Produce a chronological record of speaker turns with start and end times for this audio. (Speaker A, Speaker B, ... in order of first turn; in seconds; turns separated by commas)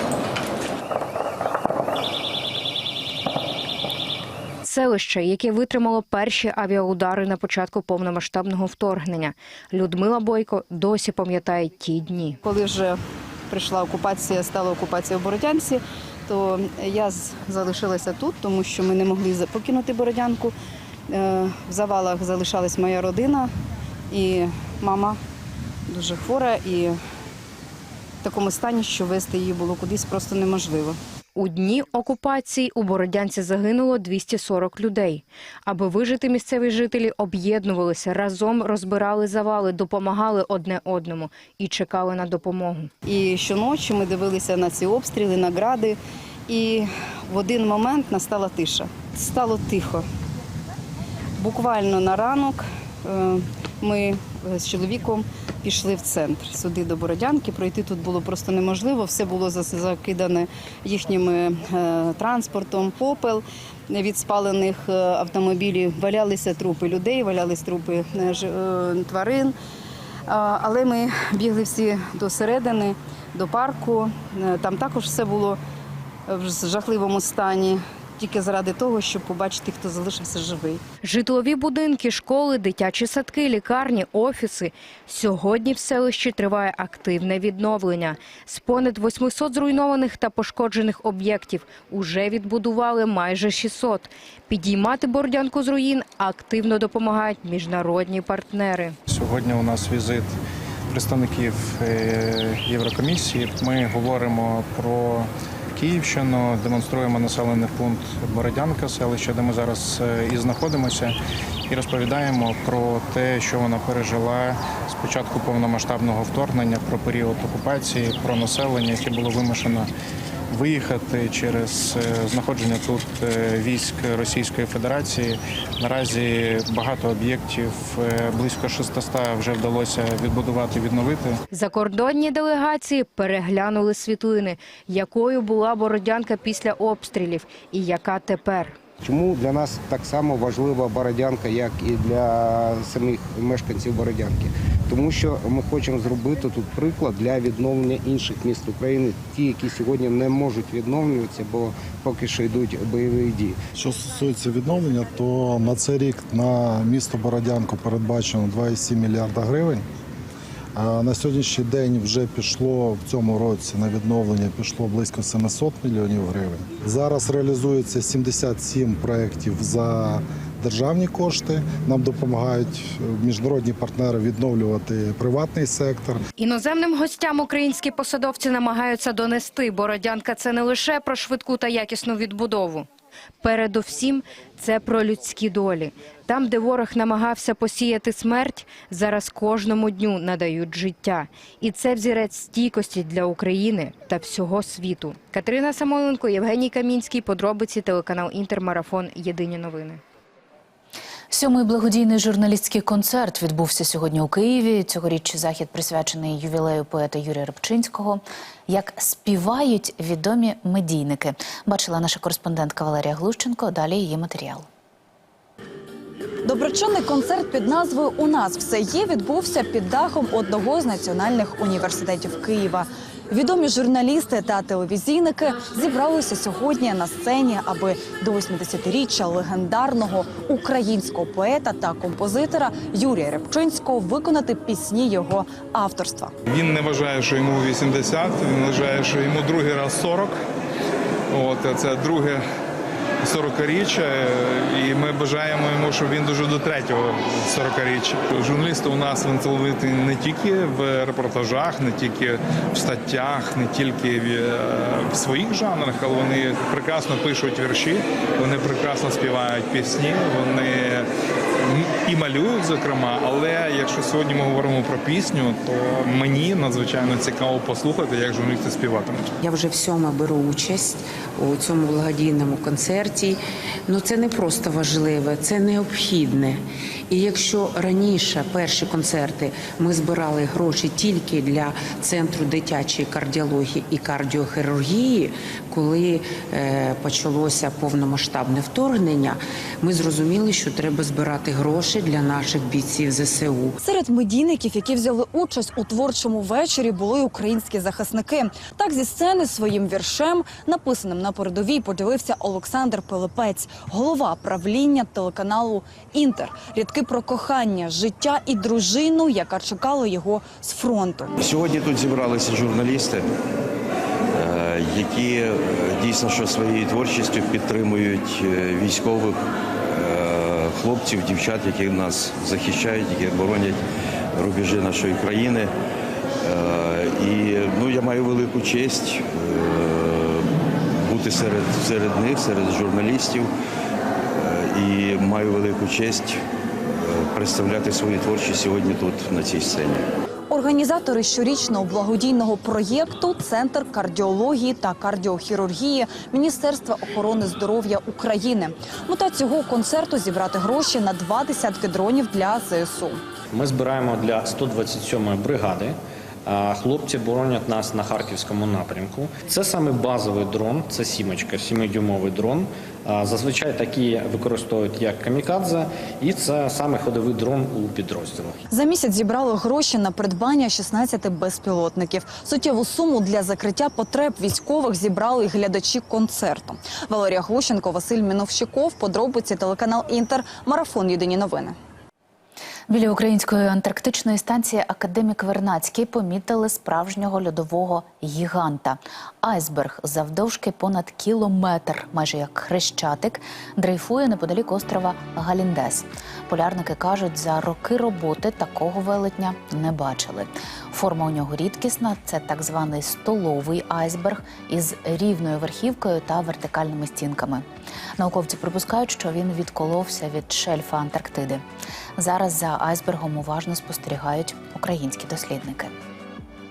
Speaker A: 4.6-12.4, Speaker B: 12.4-20.5, Speaker B: 21.1-23.5, Speaker B: 24.1-25.2, Speaker B: 25.9-27.0, Speaker B: 28.2-31.0, Speaker A: 31.4-42.9, Speaker B: 43.0-50.0, Speaker B: 51.4-69.5, Speaker B: 70.3-75.6, Speaker B: 76.3-80.8, Speaker A: 81.0-99.0, Speaker C: 99.1-100.3, Speaker C: 100.9-111.1, Speaker C: 111.7-119.9, Speaker C: 120.5-131.4, Speaker A: 131.5-138.7, Speaker D: 139.1-153.6, Speaker E: 153.7-159.8, Speaker E: 160.8-176.2, Speaker A: 176.4-182.9, Speaker A: 183.4-200.0, Speaker F: 201.3-214.7, Speaker G: 216.4-236.3, Speaker H: 236.5-240.3, Speaker H: 241.3-242.4, Speaker H: 243.2-261.1, Speaker H: 261.7-269.3, Speaker I: 269.4-293.8, Speaker G: 293.8-311.3, Speaker J: 311.4-313.3, Speaker J: 314.3-323.8, Speaker J: 324.3-325.7, Speaker J: 326.4-333.5, Speaker J: 334.3-336.4, Speaker J: 336.9-340.1, Speaker G: 340.5-353.2, Speaker K: 353.5-368.6, Speaker G: 368.7-381.8, Speaker F: 382.9-407.6, Speaker F: 408.2-411.6, Speaker F: 412.2-415.9